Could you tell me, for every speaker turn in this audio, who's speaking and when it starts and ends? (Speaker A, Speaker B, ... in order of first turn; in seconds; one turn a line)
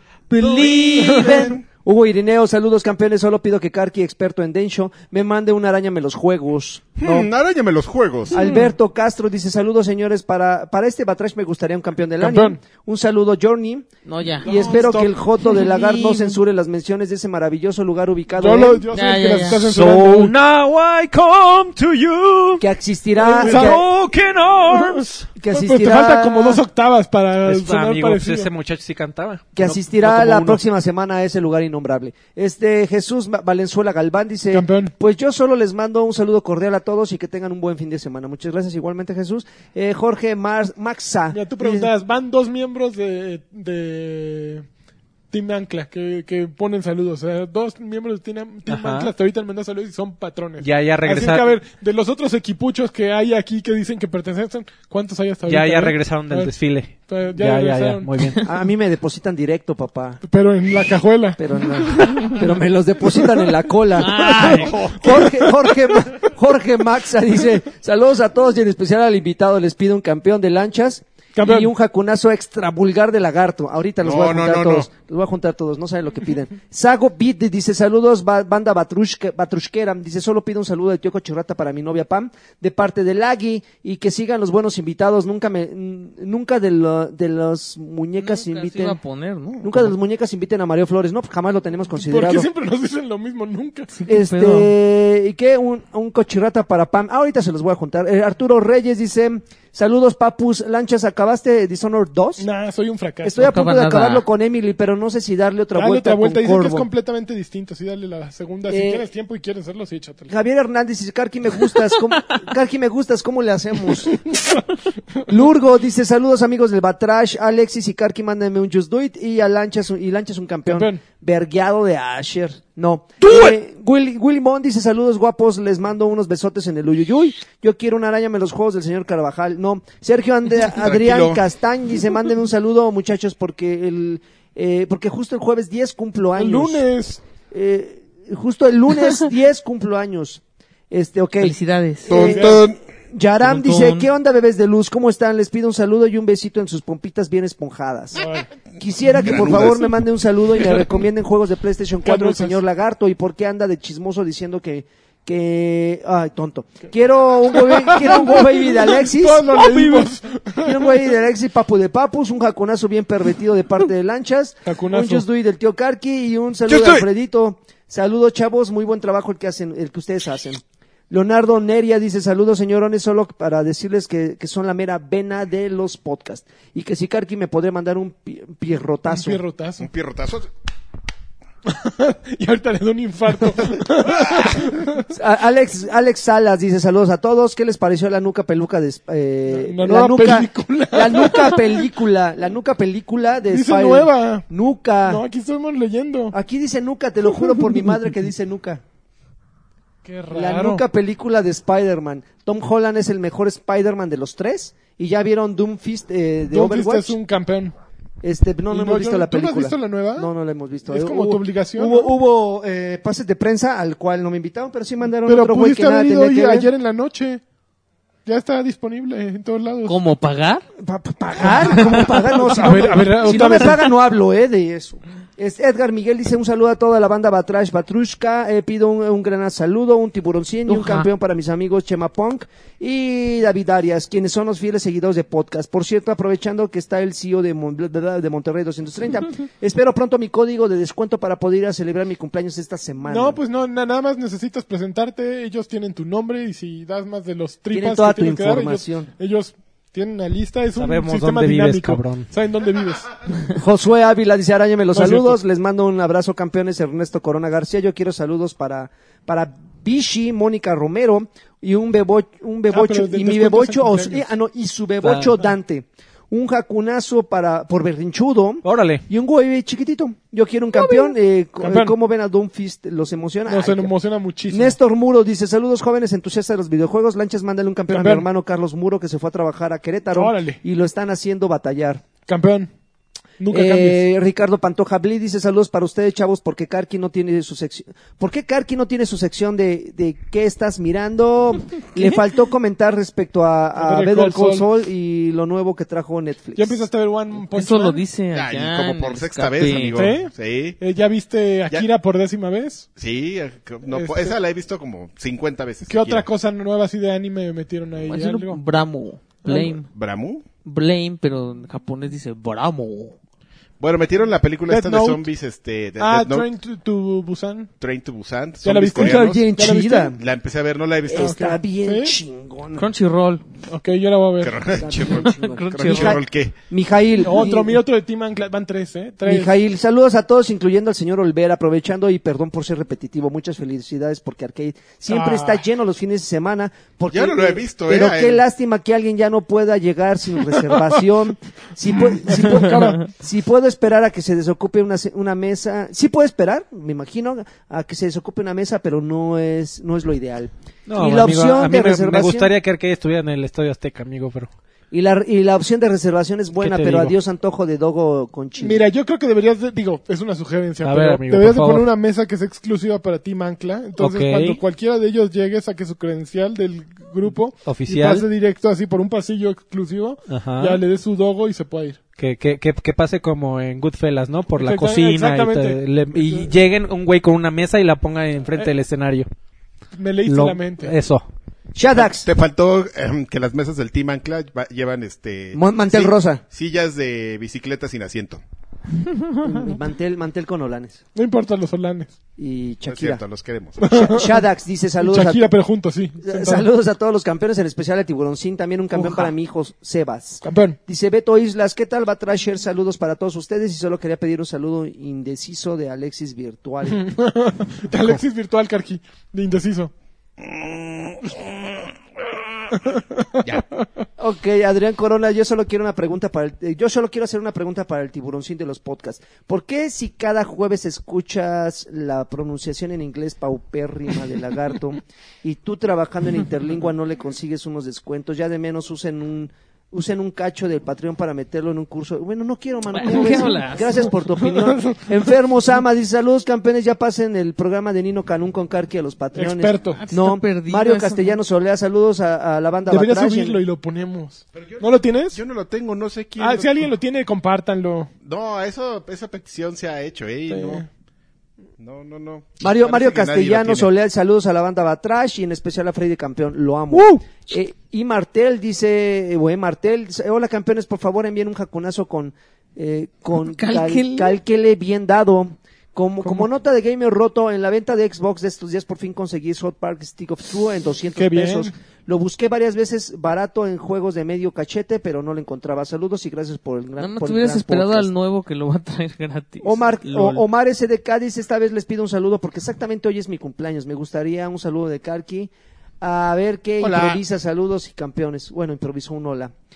Speaker A: 0.3-7.3
Speaker B: 0.4-1.5
Speaker C: 0.4-1.5
Speaker D: 1.1-1.4
Speaker C: 7.0-8.5
Speaker A: 8.3-13.9
Speaker D: 12.2-12.6
Speaker B: 14.1-14.9
Speaker D: 14.4-15.1
Speaker A: 14.4-18.9
Speaker B: 15.4-16.4
Speaker D: 18.4-20.3
Speaker B: 18.9-19.7
Speaker E: 19.6-22.7
Speaker A: 22.6-23.8
Speaker D: 23.2-23.8
Speaker E: 23.4-25.3
Speaker D: 24.7-28.5
Speaker A: 25.4-26.6
Speaker E: 27.5-30.6
Speaker A: 29.6-41.9
Speaker D: 34.5-34.9
Speaker D: 41.3-44.7
Speaker D: 45.3-58.3
Speaker E: 48.7-49.1
Speaker E: 50.6-51.5
Speaker E: 55.5-58.4
Speaker A: 58.4-60.2
Speaker D: 60.2-62.4
Speaker A: 61.4-89.0
Speaker B: 64.0-65.0
Speaker D: 64.1-65.6
Speaker D: 71.3-71.7
Speaker C: 74.0-74.9
Speaker B: 88.2-89.9
Speaker A: 89.6-92.5
Speaker D: 92.0-94.1
Speaker B: 93.9-94.7
Speaker A: 94.1-102.5
Speaker D: 102.4-103.5
Speaker A: 103.2-106.9
Speaker B: 103.4-104.3
Speaker D: 105.7-110.3
Speaker A: 108.7-109.1
Speaker A: 110.3-114.4
Speaker D: 114.3-114.6
Speaker A: 115.3-136.9
Speaker D: 120.7-121.0
Speaker C: 130.7-131.4
Speaker D: 136.4-137.2
Speaker A: 137.5-141.6
Speaker B: 141.4-142.2
Speaker A: 142.1-148.3
Speaker C: 142.1-142.8
Speaker D: 142.2-142.6
Speaker B: 143.4-144.1
Speaker D: 148.2-148.5
Speaker A: 148.8-160.1
Speaker C: 149.1-150.0
Speaker D: 149.2-149.6
Speaker D: 152.0-152.6
Speaker D: 157.5-161.0
Speaker A: 160.6-179.4
Speaker D: 164.7-165.2
Speaker C: 166.7-167.1
Speaker D: 179.1-179.9
Speaker C: 179.8-180.5
Speaker D: 181.7-185.1
Speaker A: 184.2-195.2
Speaker D: 189.5-191.9
Speaker D: 193.5-194.5
Speaker D: 195.1-196.3
Speaker A: 196.3-198.8
Speaker D: 200.0-200.8
Speaker A: 200.3-207.2
Speaker D: 206.5-207.8
Speaker A: 208.2-216.7
Speaker D: 208.7-210.3
Speaker D: 210.9-212.1
Speaker D: 215.2-217.4
Speaker D: 218.2-220.0
Speaker B: 219.8-220.7
Speaker A: 220.8-243.4
Speaker D: 222.5-223.9
Speaker B: 230.7-231.1
Speaker D: 243.1-253.1
Speaker A: 247.7-249.1
Speaker E: 250.8-252.3
Speaker A: 253.6-273.9
Speaker D: 254.9-255.4
Speaker D: 262.7-264.3
Speaker E: 265.0-265.3
Speaker E: 268.6-269.1
Speaker D: 271.6-271.9
Speaker D: 273.5-274.8
Speaker A: 274.5-282.1
Speaker D: 277.9-278.3
Speaker D: 280.1-280.6
Speaker D: 282.3-282.7
Speaker D: 283.4-284.0
Speaker A: 283.5-296.9
Speaker D: 293.8-294.7
Speaker D: 296.6-298.1
Speaker B: 297.5-300.1
Speaker C: 298.3-300.8
Speaker D: 299.9-302.9
Speaker C: 303.0-306.3
Speaker D: 303.9-304.4
Speaker D: 305.9-308.6
Speaker B: 308.1-309.9
Speaker D: 309.4-309.8
Speaker C: 309.9-310.4
Speaker B: 310.6-313.2
Speaker C: 313.8-316.5
Speaker D: 314.7-315.3
Speaker D: 316.0-317.7
Speaker C: 317.8-319.5
Speaker D: 318.6-320.1
Speaker A: 318.9-320.2
Speaker C: 320.1-321.6
Speaker A: 321.1-322.9
Speaker D: 321.1-322.2
Speaker B: 322.8-323.4
Speaker D: 323.7-324.7
Speaker C: 324.4-326.6
Speaker A: 324.8-327.8
Speaker B: 325.3-326.2
Speaker D: 327.2-329.5
Speaker A: 329.2-352.5
Speaker D: 335.1-335.6
Speaker C: 337.1-338.4
Speaker D: 342.1-343.1
Speaker E: 350.9-354.5
Speaker A: 354.9-358.8
Speaker E: 356.6-357.2
Speaker D: 358.6-372.0
Speaker E: 360.8-361.9
Speaker E: 364.0-364.6
Speaker E: 367.6-368.3
Speaker E: 370.3-370.8
Speaker E: 372.2-379.3
Speaker D: 374.6-376.5
Speaker D: 379.9-380.9
Speaker E: 380.3-381.3
Speaker A: 381.8-382.3
Speaker C: 382.0-388.4
Speaker A: 385.5-386.4
Speaker A: 389.4-391.0
Speaker D: 391.1-392.2
Speaker A: 392.4-393.2
Speaker C: 392.9-393.9
Speaker D: 393.8-394.4
Speaker A: 393.8-395.5
Speaker D: 395.0-396.7
Speaker A: 396.2-407.1
Speaker D: 400.4-400.8
Speaker D: 406.9-409.9
Speaker C: 410.4-412.9
Speaker D: 412.9-413.9
Speaker C: 413.4-413.7
Speaker A: 414.2-443.6
Speaker B: 432.9-434.2
Speaker D: 434.5-435.1
Speaker D: 439.4-440.0
Speaker B: 439.9-441.4
Speaker D: 442.9-445.4
Speaker C: 444.6-446.9
Speaker D: 446.4-448.1
Speaker C: 448.2-450.8
Speaker D: 450.5-450.9
Speaker C: 451.8-453.9
Speaker A: 452.6-478.1
Speaker D: 456.9-457.2
Speaker B: 463.4-464.4
Speaker D: 471.2-471.7
Speaker B: 477.0-480.4
Speaker A: 479.6-489.5
Speaker C: 486.8-487.1